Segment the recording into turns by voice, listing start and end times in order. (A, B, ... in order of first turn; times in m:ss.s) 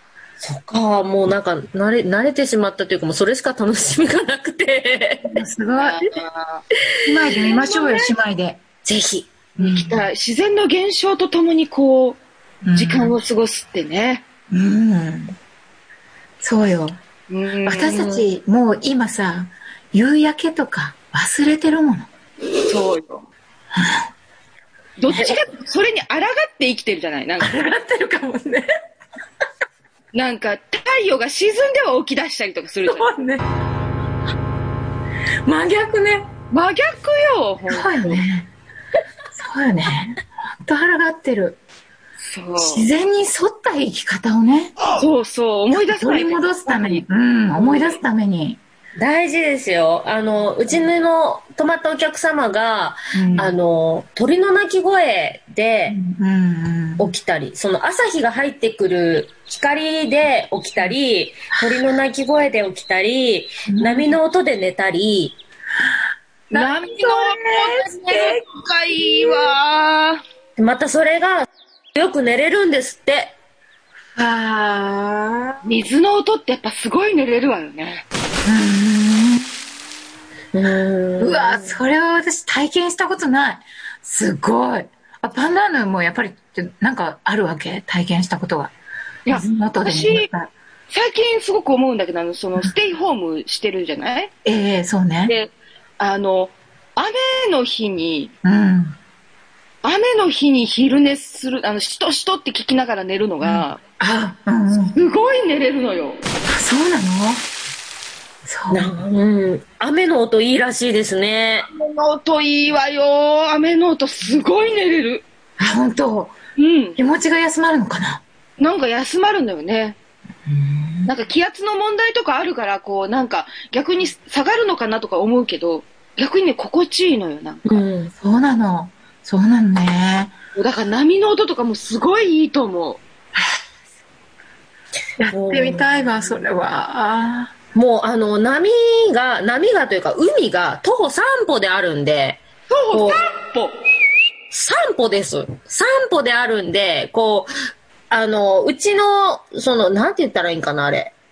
0:00.4-0:05.4 A
0:05.3-0:06.0 B
0:05.8-0:06.6 C
0:07.0-0:08.6 B
0:07.3-0:08.1 A
0:08.8-0:09.3 A
0:09.6-0:10.1 B
0:09.6-0:12.2 C
0:12.6-0:13.2 B
0:12.7-0:14.3 C
0:14.5-0:15.4 B
0:16.4-0:17.0 B
0:17.3-0:18.2 C
0:17.6-0:22.1 B
0:22.7-0:23.2 C
0:23.8-0:24.0 B
0:25.0-0:27.5 C
0:25.1-0:25.4 B
0:27.4-0:28.7 B
0:30.1-0:33.1 C
0:32.8-0:33.4 B
0:35.5-0:36.3 B
0:36.5-0:38.2 C
0:37.7-0:38.5 B
0:39.3-0:41.6 B
0:42.2-0:42.9 C
0:42.6-0:44.8 B
0:45.0-0:47.0 C
0:45.7-0:48.6 B
0:47.6-0:48.0 C
0:49.0-0:56.0 A
0:53.1-0:53.6 B
0:55.9-0:57.1 B
0:57.0-1:05.4 A
1:01.6-1:01.8 B
1:03.7-1:04.2 B
1:06.5-1:08.4 B
1:06.5-1:10.2 C
1:09.0-1:09.6 B
1:10.6-1:13.3 A
1:14.2-1:15.7 B
1:15.6-1:18.0 C
1:18.4-1:19.5 B
1:20.5-1:21.8 A
1:21.2-1:28.7 B
1:29.3-1:30.3 C
1:29.3-1:30.5 B
1:30.9-1:34.3 C
1:34.4-1:35.4 B
1:35.3-1:38.3 C
1:38.4-1:39.0 B
1:39.8-1:43.8 C
1:43.4-1:45.0 B
1:44.8-1:46.2 C
1:46.5-1:47.4 B
1:48.4-1:48.9 B
1:48.7-1:51.7 A
1:51.7-1:55.2 C
1:55.6-1:56.4 B
1:56.6-1:57.0 C
1:57.0-1:58.2 B
1:58.6-2:00.0 C
2:01.1-2:07.8 C
2:07.7-2:08.1 A
2:08.2-2:10.3 B
2:10.6-2:13.0 C
2:15.2-2:17.5 B
2:15.3-2:16.4 A
2:17.7-2:23.2 A
2:22.7-2:23.8 C
2:24.5-2:27.5 A
2:28.1-2:31.1 A